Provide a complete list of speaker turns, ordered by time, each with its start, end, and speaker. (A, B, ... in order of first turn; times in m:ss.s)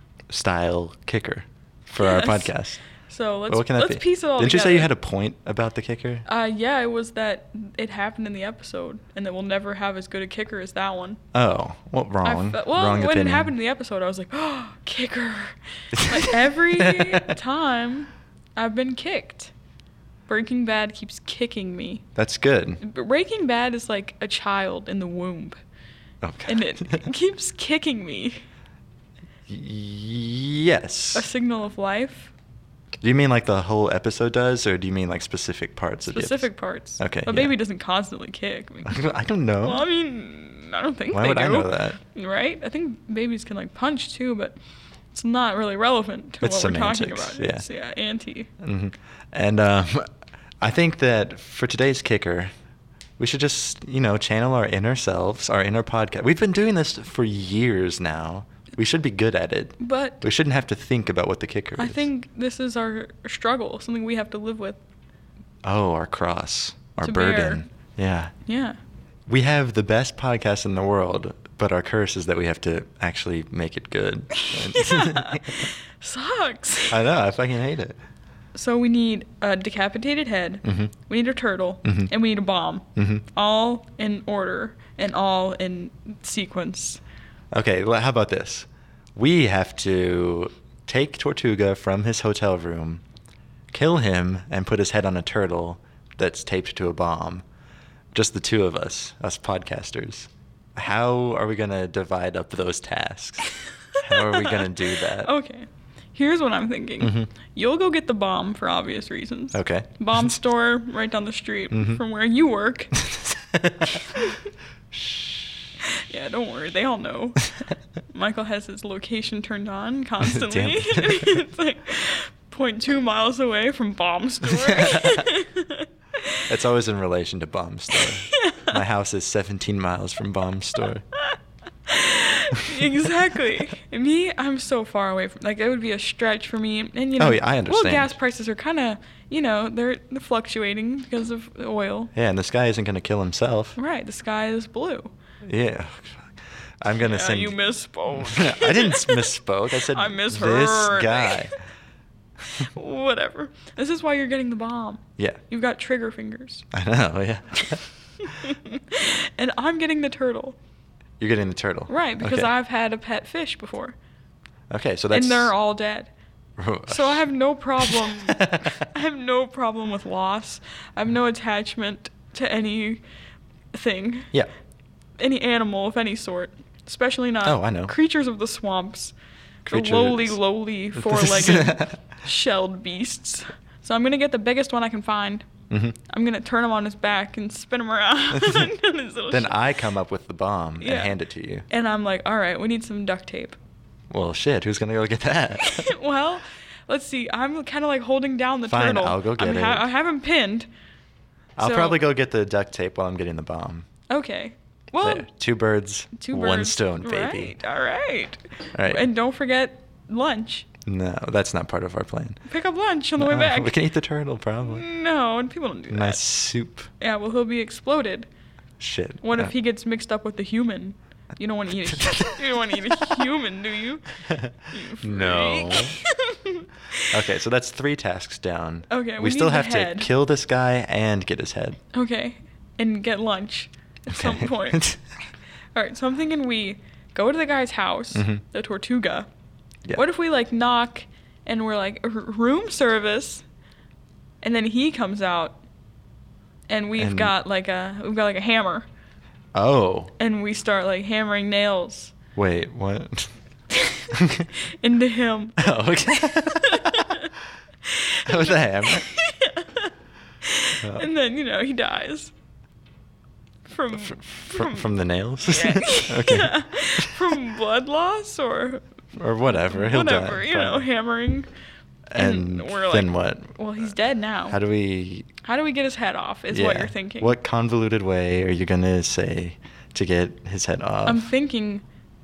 0:00.3-0:02.8 A
0:02.0-0:02.5 B
0:03.1-0:04.9 B
0:03.5-0:06.2 A
0:06.2-0:11.2 B
0:11.3-0:13.5 A
0:12.2-0:19.5 B
0:15.9-0:17.3 A
0:20.3-0:22.0 B
0:22.2-0:22.8 A
0:22.8-0:25.6 B
0:26.2-0:27.0 A
0:26.4-0:28.4 B
0:29.5-0:31.3 A
0:31.1-0:32.3 B
0:33.0-0:37.5 A
0:36.1-0:39.0 B
0:38.8-0:39.8 A
0:39.6-0:44.5 B
0:41.1-0:42.0 A
0:45.1-0:48.5 B
0:46.4-0:47.6 A
0:48.6-0:52.5 A
0:53.2-1:02.0 A
0:59.8-1:00.2 B
1:01.8-1:04.8 B
1:05.6-1:08.3 A
1:07.0-1:07.6 B
1:08.4-1:08.8 B
1:09.3-1:15.7 A
1:14.3-1:17.0 B
1:16.9-1:18.0 A
1:18.5-1:27.0 B
1:20.6-1:20.9 A
1:21.8-1:22.1 A
1:23.0-1:23.2 A
1:27.5-1:33.0 A
1:33.7-1:37.4 A
1:38.1-1:43.5 A
1:44.0-1:53.0 B
1:44.0-1:45.3 A
1:47.0-1:47.3 A
1:49.5-1:50.3 A
1:51.7-1:52.0 A
1:53.0-1:54.0 A
1:54.9-1:55.6 A
1:56.1-1:57.5 B
1:58.1-2:06.5 B
2:00.2-2:01.4 A
2:04.6-2:05.2 A
2:06.5-2:11.0 A
2:07.9-2:08.8 B
2:11.9-2:22.1 B
2:17.2-2:18.1 A
2:22.1-2:23.8 A
2:23.8-2:25.1 B
2:25.4-2:27.6 A
2:27.0-2:31.5 B
2:28.1-2:31.5 A
2:32.5-2:36.7 B
2:36.7-2:37.8 A
2:38.2-2:40.6 B
2:41.2-2:42.5 A
2:41.9-2:44.0 B
2:44.7-2:45.5 A
2:45.1-2:46.1 B
2:46.6-2:47.3 A
2:46.9-2:53.0 B
2:47.8-2:48.8 A
2:53.7-2:54.3 B
2:55.2-2:59.1 B
2:57.4-2:57.9 A
2:59.6-3:00.4 A
2:59.7-3:05.5 B
3:00.9-3:02.0 A
3:05.7-3:06.0 A
3:06.1-3:09.5 B
3:08.3-3:08.7 A
3:09.3-3:11.6 A
3:10.8-3:11.1 B
3:11.7-3:13.6 B
3:14.1-3:15.9 A
3:15.6-3:20.7 B
3:18.7-3:19.9 A
3:21.6-3:23.9 A
3:21.6-3:22.0 B
3:24.1-3:25.3 B
3:25.0-3:27.6 A
3:26.1-3:30.7 B
3:28.7-3:29.1 A
3:30.8-3:32.4 A
3:32.5-3:33.7 B
3:33.2-3:34.8 A
3:34.6-3:36.2 B
3:35.9-3:36.9 A
3:37.0-3:38.3 B
3:38.8-3:39.5 A
3:39.2-3:47.1 B
3:41.8-3:42.4 A
3:42.9-3:43.2 A
3:44.3-3:46.0 A
3:47.1-3:51.8 A
3:48.9-3:50.1 B
3:51.9-3:54.9 B
3:54.1-3:55.0 A
3:55.7-3:59.3 B
3:58.1-3:58.4 A
3:59.9-4:03.4 B
4:04.4-4:05.6 B
4:06.7-4:08.9 B
4:07.0-4:07.3 A
4:09.5-4:10.1 A
4:10.2-4:12.1 B
4:12.3-4:13.3 A
4:13.7-4:15.6 B
4:14.1-4:14.5 A
4:15.6-4:17.1 A
4:16.6-4:17.3 B
4:17.9-4:19.9 B
4:18.2-4:19.1 A
4:20.4-4:22.3 B
4:20.8-4:21.1 A
4:23.6-4:24.8 B
4:23.9-4:27.4 A
4:25.4-4:28.8 B
4:29.1-4:30.9 A
4:29.5-4:31.5 B
4:32.1-4:33.5 A
4:32.2-4:34.6 B
4:34.5-4:35.3 A
4:35.4-4:37.3 B
4:36.5-4:41.3 A
4:41.0-4:41.8 B